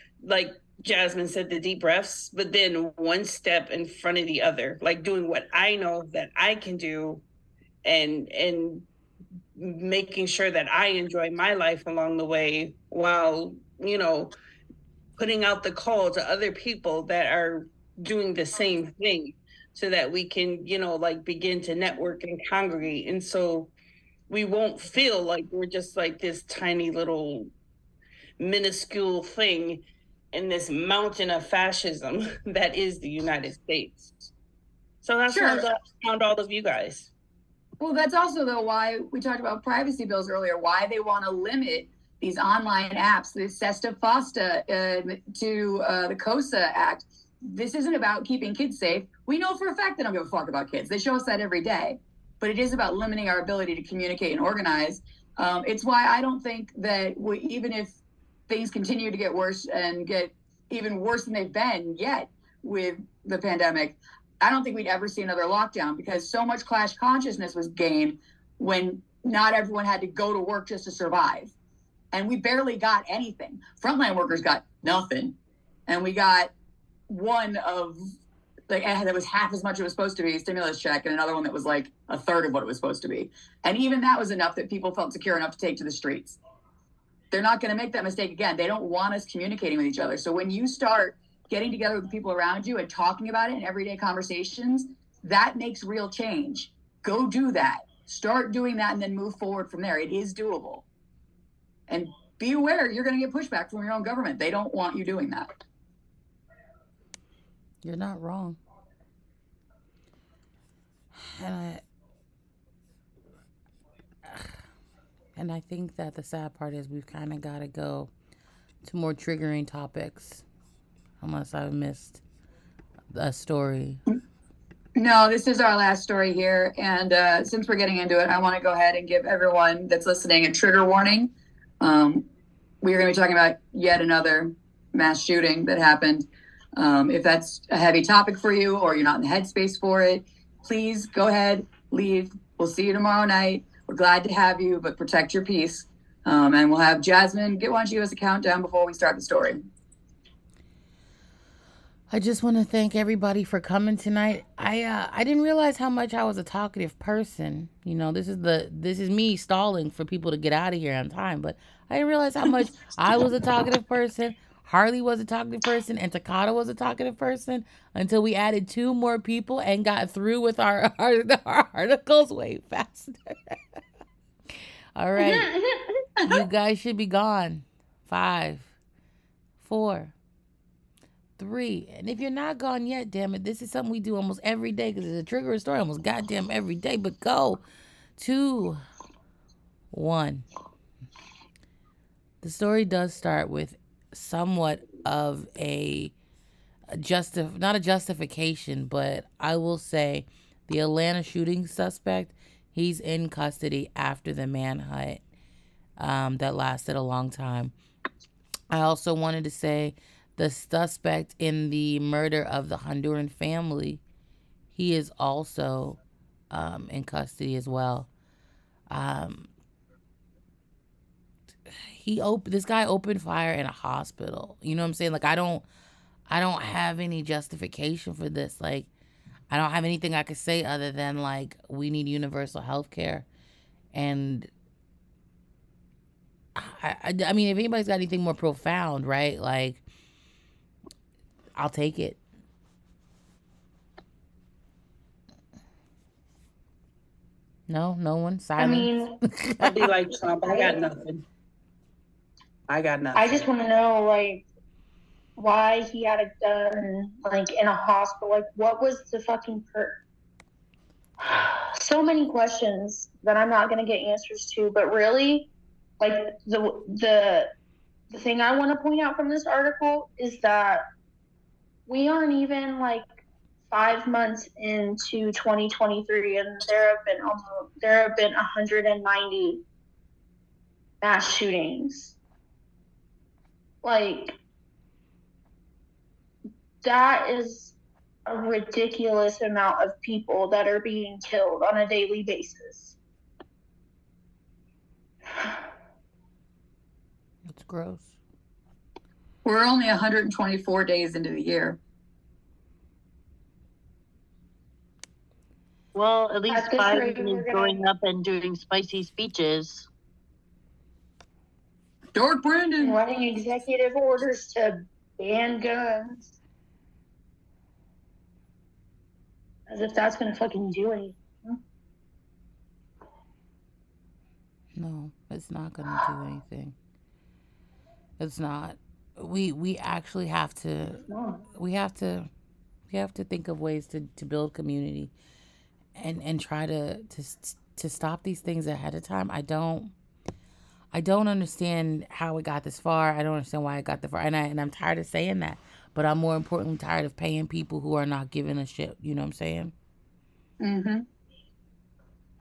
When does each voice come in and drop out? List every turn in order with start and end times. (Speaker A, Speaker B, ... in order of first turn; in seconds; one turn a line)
Speaker A: 0.2-7.2
Speaker A: 7.8-8.9
Speaker A: 9.6-14.3
Speaker A: 15.2-23.7
Speaker A: 24.3-27.5
Speaker A: 28.4-34.3
Speaker A: 35.0-37.1
Speaker B: 35.3-35.6
Speaker B: 37.8-58.0
Speaker B: 58.5-71.5
Speaker B: 72.1-75.4
Speaker B: 75.9-76.5
Speaker B: 77.1-78.0
Speaker B: 78.7-86.4
Speaker B: 87.3-100.8
Speaker B: 101.9-105.5
Speaker C: 107.8-108.6
Speaker C: 111.1-111.8
Speaker C: 114.3-114.6
Speaker C: 115.4-118.1
Speaker C: 118.8-120.5
Speaker C: 121.2-122.2
Speaker C: 123.1-124.0
Speaker B: 125.0-132.3
Speaker B: 132.8-149.6
Speaker C: 152.1-173.6
Speaker C: 175.0-175.5
Speaker D: 175.2-175.9
Speaker C: 176.2-178.7
Speaker C: 179.6-180.1
Speaker C: 181.4-187.6
Speaker C: 188.2-188.8
Speaker C: 189.9-190.4
Speaker C: 192.4-196.1
Speaker C: 196.9-205.2
Speaker C: 206.0-207.7
Speaker C: 208.7-214.0
Speaker C: 214.7-216.0
Speaker C: 216.5-218.1
Speaker C: 218.9-219.5
Speaker C: 221.7-225.6
Speaker C: 226.3-228.9
Speaker C: 229.5-233.3
Speaker C: 233.9-234.5
Speaker C: 236.6-239.8
Speaker C: 241.6-242.2
Speaker C: 247.7-249.9
Speaker D: 248.6-249.2
Speaker A: 249.6-251.2
Speaker D: 250.4-250.8
Speaker A: 252.7-253.5
Speaker D: 253.1-254.4
Speaker D: 255.4-260.0
Speaker D: 261.2-267.5
Speaker D: 268.1-270.8
Speaker D: 271.9-273.2
Speaker D: 273.7-279.6
Speaker D: 281.0-282.2
Speaker D: 283.8-284.4
Speaker D: 286.8-287.8
Speaker D: 288.3-293.0
Speaker C: 297.5-298.2
Speaker B: 299.4-301.8
Speaker E: 305.9-309.9
Speaker D: 306.5-307.8
Speaker B: 312.1-313.0
Speaker D: 312.8-316.3
Speaker D: 319.7-321.6
Speaker C: 324.8-326.8
Speaker C: 328.2-331.0
Speaker D: 331.0-331.4
Speaker C: 331.6-332.3
Speaker C: 332.9-335.1
Speaker C: 336.0-339.9
Speaker C: 340.9-349.7
Speaker B: 350.6-351.1